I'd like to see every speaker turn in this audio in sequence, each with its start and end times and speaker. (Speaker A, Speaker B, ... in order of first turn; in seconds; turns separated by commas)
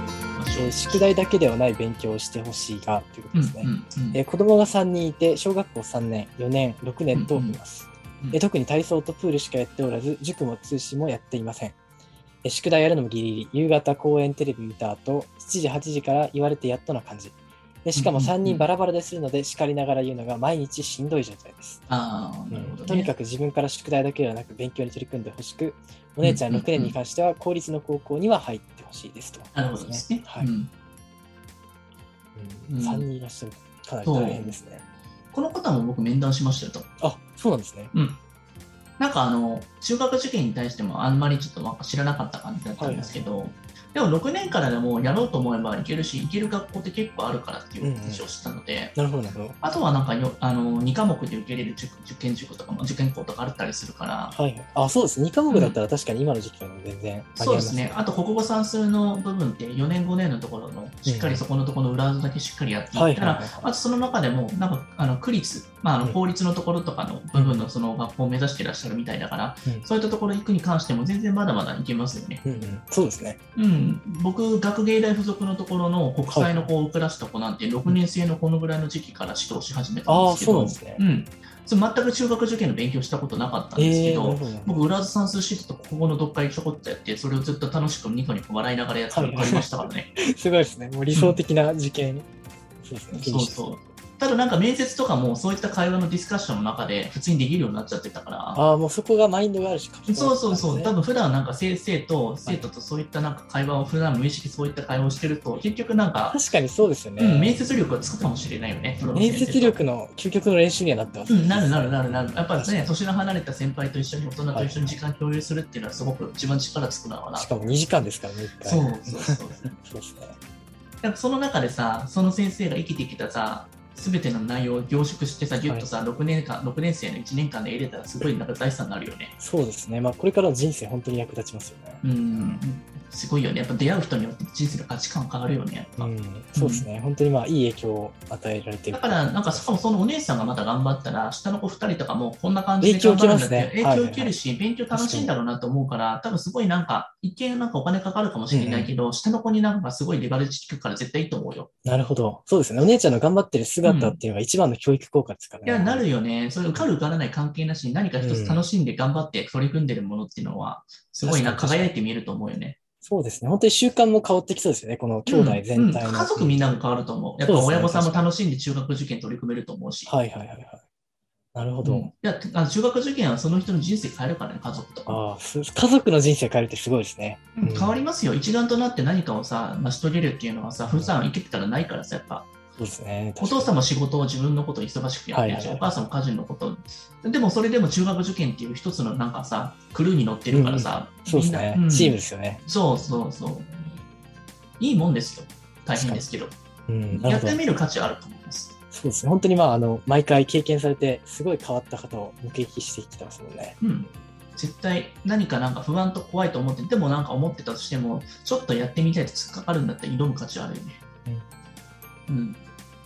Speaker A: 0.3-1.1, Speaker B: 0.5-11.8, Speaker A: 3.3-4.2, Speaker A: 7.1-7.6, Speaker B: 12.4-21.8, Speaker A: 17.9-18.7, Speaker A: 21.9-23.1, Speaker B: 22.5-30.5, Speaker A: 26.2-26.9, Speaker A: 29.6-30.7, Speaker B: 32.4-34.8, Speaker A: 32.7-33.1, Speaker A: 34.0-34.6, Speaker A: 35.3-36.9, Speaker B: 37.0-37.9, Speaker A: 37.9-38.2, Speaker A: 39.0-49.0, Speaker B: 42.8-43.2, Speaker B: 47.8-48.3, Speaker B: 49.0-49.6, Speaker A: 49.6-54.3, Speaker B: 54.3-58.0, Speaker A: 55.5-55.8, Speaker A: 57.4-72.4, Speaker B: 61.1-61.5, Speaker B: 62.9-63.7, Speaker B: 67.3-67.7, Speaker B: 72.4-73.4, Speaker A: 73.5-90.1, Speaker B: 76.3-76.7, Speaker B: 80.1-81.0, Speaker B: 83.8-84.8, Speaker B: 89.1-92.2, Speaker A: 91.1-91.4, Speaker B: 92.8-93.8, Speaker A: 93.1-98.6, Speaker B: 98.5-100.9, Speaker A: 100.1-106.4, Speaker B: 106.3-107.6, Speaker A: 107.2-109.8, Speaker B: 109.1-112.9, Speaker A: 111.3-117.5, Speaker B: 114.5-115.0, Speaker B: 117.3-120.4, Speaker A: 118.6-119.8, Speaker A: 121.0-129.3, Speaker B: 125.6-125.9, Speaker B: 129.4-132.6, Speaker A: 132.0-136.9, Speaker B: 136.0-139.8, Speaker A: 138.9-151.7, Speaker B: 142.8-144.3, Speaker B: 144.9-145.3, Speaker B: 148.5-148.9, Speaker B: 151.8-156.1, Speaker A: 153.8-154.2, Speaker A: 155.6-162.8, Speaker B: 158.2-158.7, Speaker B: 161.2-161.9, Speaker B: 163.0-166.8, Speaker A: 165.3-170.1, Speaker B: 167.4-168.3, Speaker B: 170.1-170.8, Speaker B: 171.5-172.1, Speaker A: 171.8-175.2, Speaker B: 175.1-178.0, Speaker A: 177.6-182.5, Speaker B: 180.9-181.1, Speaker B: 182.8-183.7, Speaker A: 183.4-193.7, Speaker B: 185.3-185.9, Speaker B: 190.5-192.6, Speaker A: 194.8-196.6, Speaker B: 195.9-196.2, Speaker B: 196.9-197.6, Speaker A: 197.1-198.7, Speaker B: 198.9-203.8, Speaker A: 203.8-211.0, Speaker A: 212.3-212.6